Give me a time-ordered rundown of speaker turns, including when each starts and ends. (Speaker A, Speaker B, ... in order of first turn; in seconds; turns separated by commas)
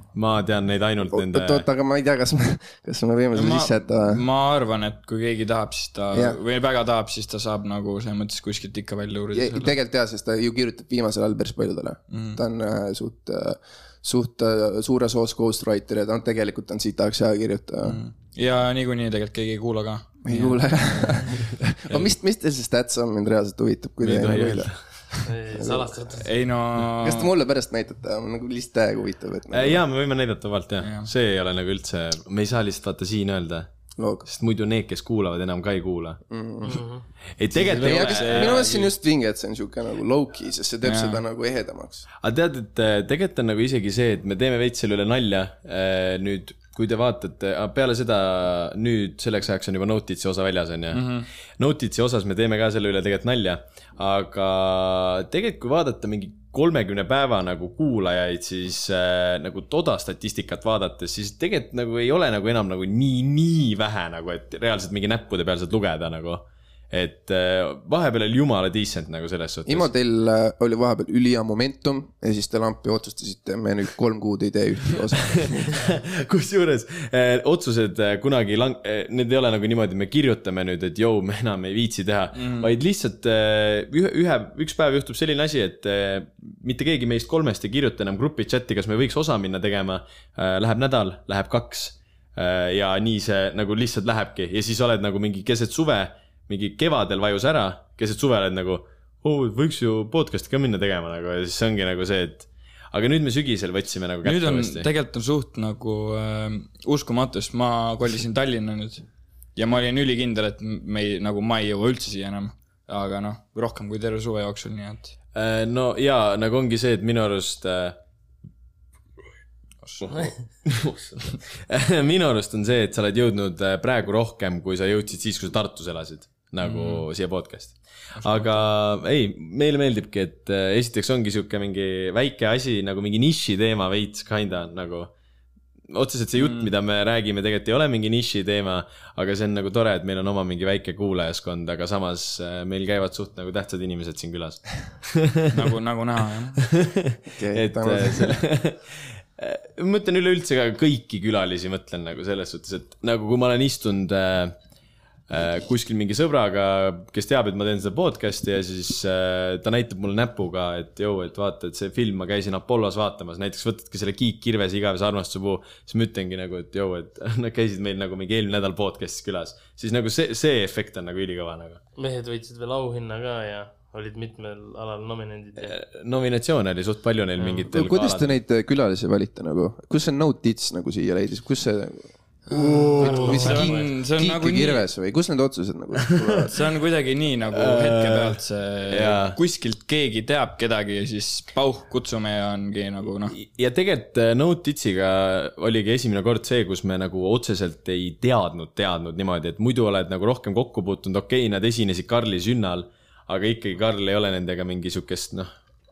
Speaker A: 0.1-1.6, Speaker B: 1.1-4.2, Speaker C: 3.3-9.7, Speaker B: 6.1-6.4, Speaker B: 9.3-18.0, Speaker C: 12.1-12.4, Speaker C: 17.8-21.2, Speaker B: 20.2-26.0, Speaker A: 24.0-24.8, Speaker D: 25.2-26.3, Speaker C: 26.2-27.3, Speaker B: 27.0-29.8, Speaker A: 29.5-33.7, Speaker C: 30.8-31.1, Speaker B: 34.0-34.3, Speaker A: 34.2-36.2, Speaker B: 36.3-36.8, Speaker D: 36.6-37.0, Speaker A: 37.4-38.9, Speaker B: 37.5-42.0, Speaker C: 37.6-38.6, Speaker C: 40.8-41.2, Speaker A: 42.2-51.1, Speaker C: 50.9-51.3, Speaker A: 51.6-69.9, Speaker B: 69.7-75.8, Speaker A: 75.4-104.9, Speaker C: 82.3-82.7, Speaker C: 104.2-115.1, Speaker A: 115.3-118.0, Speaker A: 120.0-135.1, Speaker C: 126.6-127.0, Speaker C: 128.2-128.6, Speaker A: 135.9-145.5, Speaker C: 136.4-136.7, Speaker C: 145.5-146.6, Speaker A: 146.7-154.6, Speaker B: 147.4-148.3, Speaker A: 155.3-171.8, Speaker D: 172.0-175.7, Speaker A: 175.6-178.3, Speaker D: 177.4-177.6, Speaker B: 177.7-182.1, Speaker A: 182.5-183.7, Speaker C: 182.5-184.8, Speaker B: 183.0-186.6, Speaker C: 186.5-193.3, Speaker A: 187.5-188.4, Speaker A: 188.9-189.4, Speaker A: 193.3-205.5